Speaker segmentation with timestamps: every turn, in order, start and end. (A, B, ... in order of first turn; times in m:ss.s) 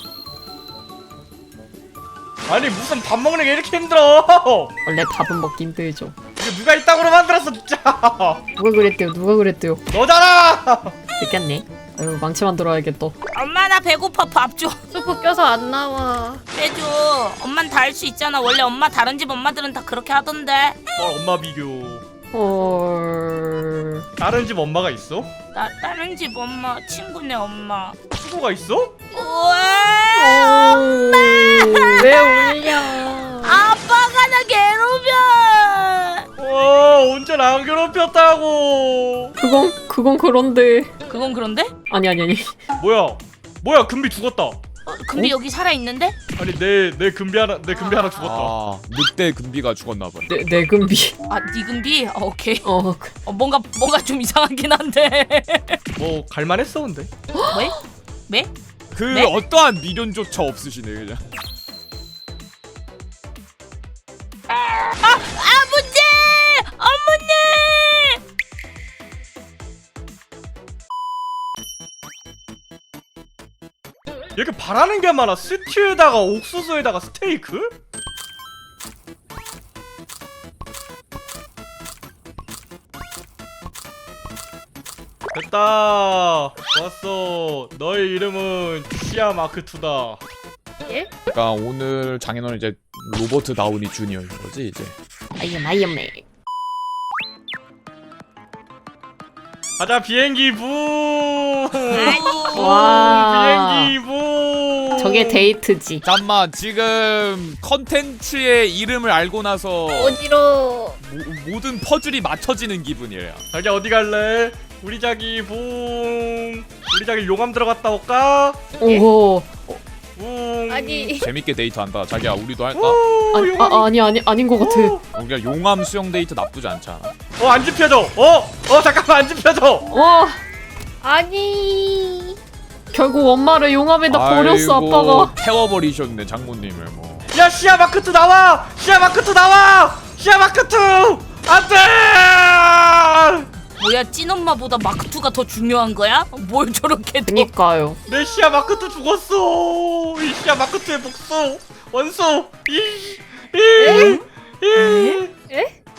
0:02.5-0:04.7 A
0:04.8-0:06.1 B
0:06.4-0:08.4 A
0:08.6-0:09.8 B
0:09.9-0:11.0 A
0:11.2-0:13.1 B
0:13.3-0:14.8 C
0:14.9-0:16.4 D
0:16.5-0:20.8 C
0:21.0-0:22.0 A
0:22.3-0:24.1 B
0:24.2-0:25.3 A
0:25.5-0:28.0 C
0:28.1-0:28.9 A
0:29.1-0:32.6 C
0:30.2-0:32.8 B
0:32.1-0:33.6 D
0:33.3-0:36.2 C
0:36.4-0:39.3 A
0:39.4-0:40.9 B
0:41.1-0:41.7 C
0:41.9-0:42.6 B
0:42.8-0:44.6 A
0:44.8-0:46.2 C
0:46.4-0:48.5 A
0:47.8-0:48.1 D
0:48.2-0:50.3 E
0:50.3-0:51.2 B
0:51.3-0:52.7 C
0:52.6-0:53.1 B
0:53.2-0:55.8 C
0:56.0-0:57.1 A
0:57.3-0:57.8 B
0:57.5-0:58.5 C
0:58.9-1:01.2 E
0:59.1-0:59.3 C
1:04.5-1:08.2 C
1:14.4-1:17.7 A
1:25.3-1:30.2 A
1:31.3-1:34.9 E
1:35.3-1:36.2 B
1:39.8-1:45.4 A
1:41.9-1:42.8 C
1:42.5-1:43.9 B
1:45.0-1:46.0 B
1:46.0-1:50.2 E
1:49.9-1:51.0 D
1:51.0-1:53.4 E
1:53.5-1:58.7 A
1:58.8-1:59.1 D
1:58.8-1:59.8 B
2:00.2-2:01.2 A
2:00.7-2:01.3 D
2:01.2-2:03.0 E
2:02.7-2:03.9 A
2:03.3-2:05.0 B
2:04.6-2:05.0 A
2:05.1-2:07.1 E
2:07.4-2:09.9 A
2:09.9-2:10.4 B
2:11.0-2:12.4 D
2:12.9-2:15.3 B
2:14.1-2:17.2 E
2:17.3-2:23.5 A
2:23.8-2:27.5 C
2:27.2-2:28.0 B
2:28.1-2:35.3 A
2:33.8-2:34.1 D
2:33.8-2:34.2 C
2:34.7-2:35.2 C